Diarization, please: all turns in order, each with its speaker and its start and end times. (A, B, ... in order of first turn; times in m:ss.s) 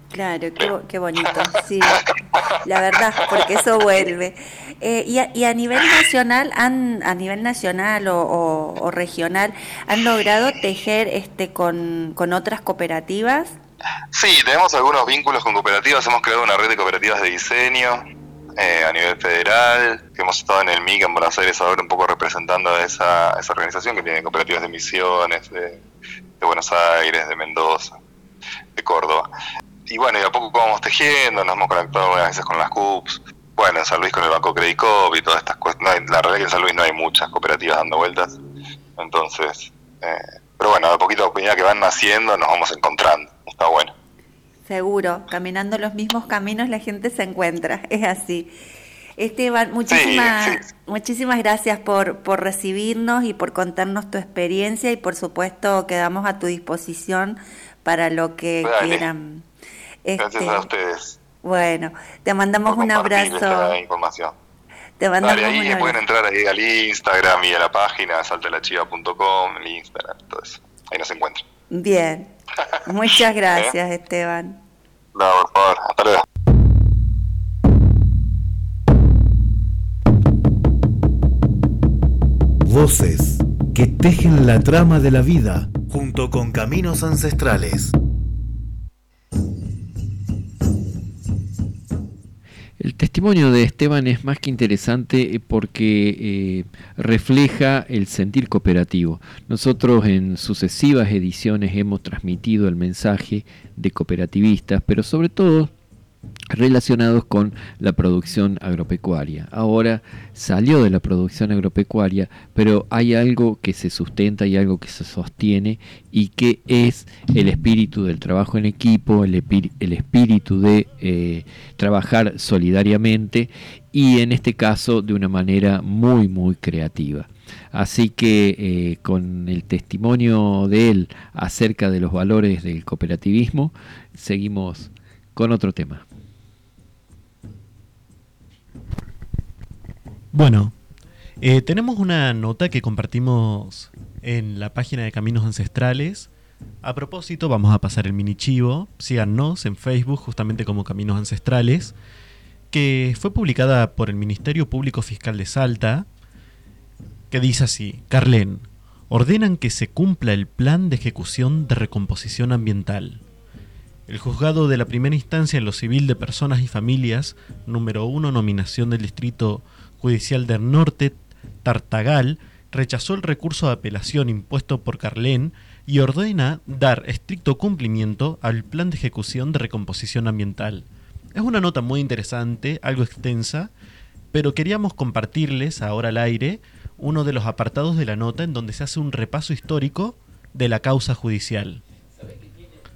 0:00.1-0:02.0 A
0:02.6-0:13.6 A
0:14.1-0:18.0 B
0:18.6-0:25.8 B
0:26.4-0:28.0 B
0:28.8-0:29.3 B
0:29.9-0:38.4 B
0:39.0-0:43.9 B
0:44.6-0:48.5 A
0:49.2-0:59.4 A
0:49.9-0:50.6 B
0:58.6-0:59.1 B
1:00.0-1:00.7 A
1:00.2-1:01.2 B
1:01.4-1:03.8 A
1:02.6-1:04.3 B
1:05.0-1:06.0 A
1:05.2-1:11.4 B
1:11.7-1:12.3 A
1:12.8-1:14.6 A
1:15.1-1:16.2 B
1:22.6-1:27.9 C
1:32.8-1:45.7 D
1:46.5-2:16.0 D
2:20.3-2:20.7 E
2:21.4-2:26.3 E
2:26.8-2:31.9 E
2:32.7-2:36.0 E
2:37.3-2:43.2 E
2:44.1-3:03.7 E
3:04.3-3:11.8 E